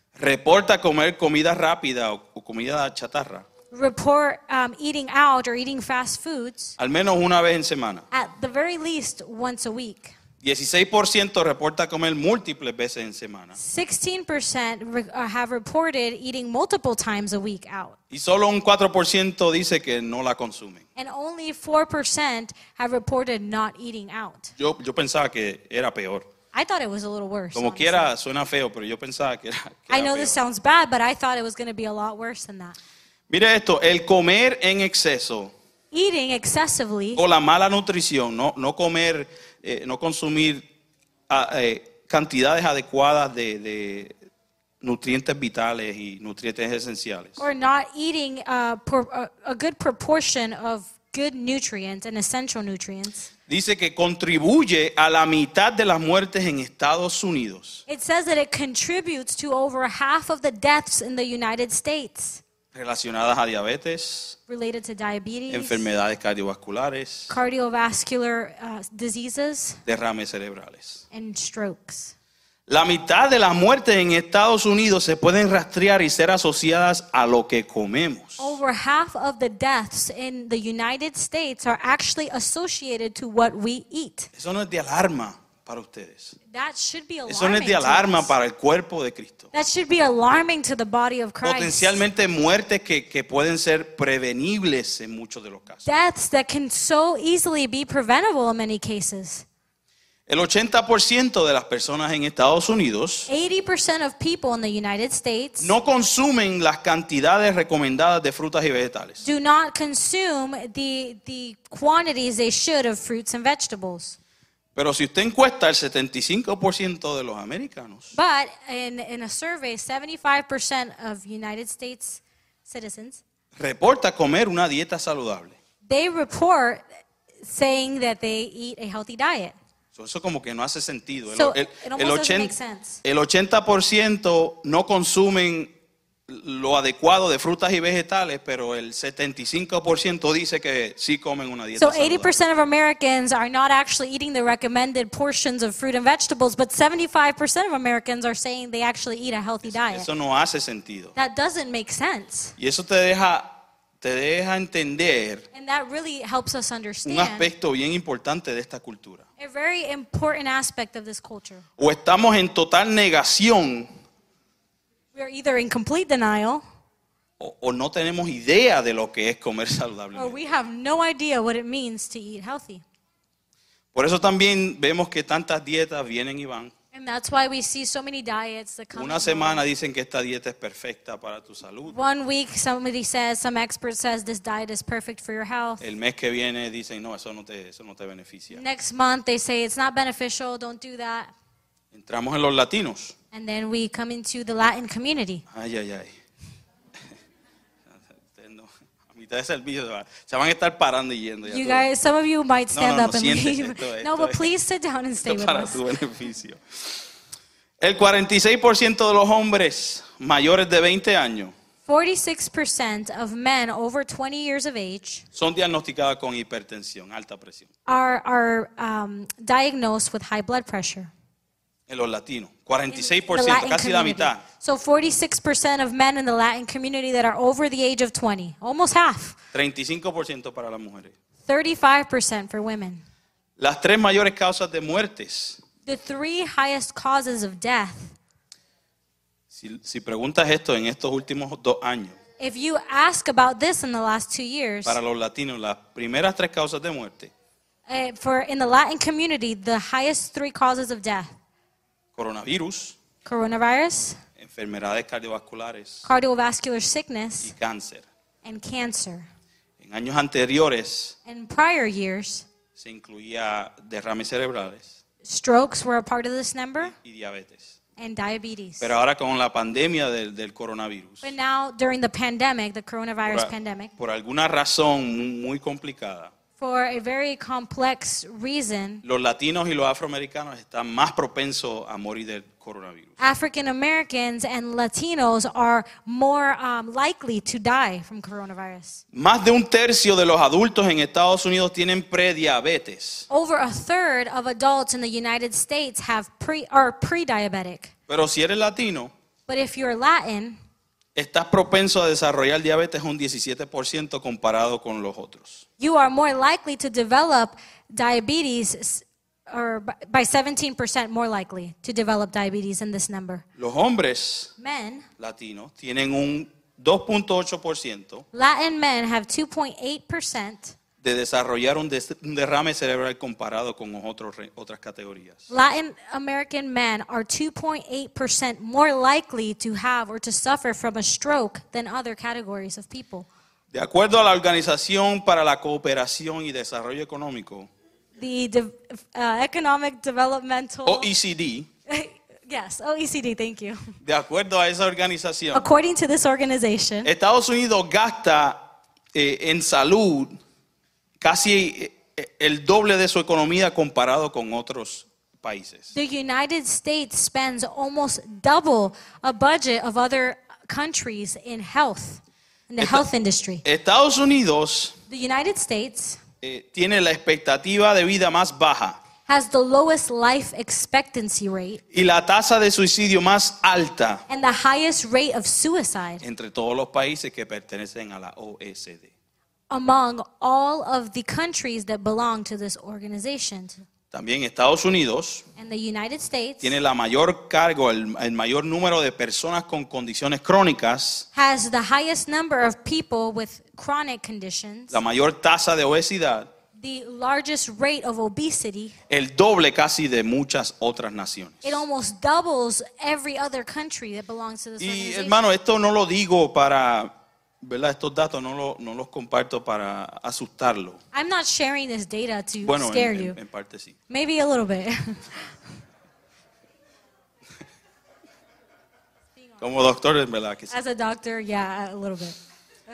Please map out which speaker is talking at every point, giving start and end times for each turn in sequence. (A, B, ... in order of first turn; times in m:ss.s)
0:00.2-0:03.5 A
0:03.7-0:06.8 B
0:06.8-0:08.1 A
0:08.1-0:10.2 B
0:10.4-0:13.6 A
0:13.6-0:18.0 B
0:18.1-0:20.8 A
0:21.0-0:24.5 B
0:24.6-0:26.3 A
0:26.5-0:28.1 B
0:27.6-0:30.4 A
0:29.9-0:32.8 B
0:33.3-0:35.5 A
0:35.9-0:37.2 B
0:37.2-0:40.6 A
0:41.3-0:44.1 A
0:44.8-0:47.4 A
0:47.4-0:53.3 B
0:53.5-0:57.8 A
0:57.9-1:02.4 B
1:02.7-1:04.4 A
1:04.5-1:05.9 B
1:05.5-1:07.4 A
1:07.3-1:09.8 B
1:09.9-1:11.0 A
1:11.1-1:12.2 B
1:12.7-1:18.6 A
1:18.4-1:24.3 B
1:24.3-1:26.4 A
1:26.5-1:28.3 B
1:27.3-1:29.5 A
1:29.5-1:32.0 B
1:31.4-1:35.9 A
1:35.8-1:39.4 B
1:40.3-1:43.3 A
1:43.3-1:45.7 B
1:45.6-1:49.2 A
1:49.2-1:54.2 B
1:54.8-1:58.2 A
1:58.1-2:03.2 B
2:03.6-2:05.6 A
2:05.8-2:06.8 B
2:07.4-2:09.6 B
2:10.0-2:12.5 A
2:11.3-2:13.0 B
2:13.0-2:15.7 A
2:16.3-2:22.3 A
2:21.8-2:30.1 B
2:29.7-2:31.1 A
2:31.2-2:32.6 B
2:32.6-2:35.4 A
2:35.5-2:37.5 B
2:37.1-2:39.2 A
2:39.4-2:41.6 B
2:41.8-2:43.9 A
2:45.1-2:46.6 B
2:47.4-2:50.4 A
2:50.1-2:52.8 B
2:53.9-2:56.7 A
2:56.9-2:59.7 B
2:58.9-3:02.0 A
3:01.9-3:05.9 B
3:05.8-3:08.6 A
3:08.5-3:11.3 B
3:11.9-3:13.2 A
3:13.3-3:15.4 B
3:15.5-3:16.1 A
3:17.9-3:21.9 A
3:21.4-3:25.8 B
3:22.7-3:24.5 A
3:25.2-3:27.0 A
3:27.8-3:31.5 A
3:31.9-3:35.3 B
3:35.3-3:37.7 A
3:37.9-3:41.1 B
3:41.9-3:44.4 A
3:42.9-3:49.4 B
3:49.5-3:51.2 A
3:51.4-3:53.0 B
3:53.6-3:55.6 A
3:55.8-3:58.2 B
3:59.5-4:02.2 A
4:02.4-4:05.0 B
4:04.8-4:07.3 A
4:07.9-4:11.4 B
4:12.2-4:13.0 A
4:13.2-4:14.2 B
4:14.4-4:16.1 A
4:16.0-4:17.5 B
4:17.4-4:18.1 A
4:18.4-4:19.3 B
4:19.8-4:21.2 A
4:21.2-4:22.5 B
4:22.8-4:25.0 A
4:25.2-4:26.9 B
4:26.8-4:27.8 A
4:28.0-4:28.9 B
4:28.8-4:31.3 A
4:31.2-4:33.9 B
4:33.3-4:36.3 A
4:36.6-4:39.0 B
4:39.0-4:43.2 A
4:43.2-4:49.0 B
4:49.1-4:53.3 A
4:53.3-4:57.9 B
4:58.1-4:59.1 A
4:59.5-5:00.6 B
5:01.2-5:05.6 A
5:05.8-5:13.4 B
5:13.6-5:14.5 A
5:14.6-5:15.1 B
5:15.2-5:18.3 A
5:18.3-5:20.8 B
5:21.0-5:25.5 A
5:25.5-5:33.3 B
5:33.7-5:37.7 A
5:38.2-5:41.1 B
5:40.9-5:41.7 A
5:41.9-5:43.9 B
5:44.0-5:45.7 A
5:45.5-5:47.1 B
5:47.0-5:48.6 A
5:49.1-5:50.3 A
5:51.2-5:55.9 A
5:55.9-6:03.6 B
6:02.8-6:03.0 A
6:03.6-6:05.0 A
6:05.1-6:06.2 B
6:06.4-6:09.0 A
6:09.3-6:11.8 B
6:11.9-6:14.2 A
6:14.3-6:16.2 B
6:16.2-6:19.1 A
6:19.7-6:23.8 B
6:24.1-6:25.5 A
6:25.6-6:26.8 B
6:26.6-6:31.3 A
6:31.3-6:35.0 B
6:34.9-6:36.5 A
6:36.8-6:39.0 B
6:39.1-6:41.8 A
6:41.6-6:45.4 B
6:44.8-6:51.0 A
6:51.1-6:53.4 B
6:52.6-6:54.0 A
6:54.1-6:55.5 B
6:59.6-7:00.7 A
7:00.7-7:02.4 B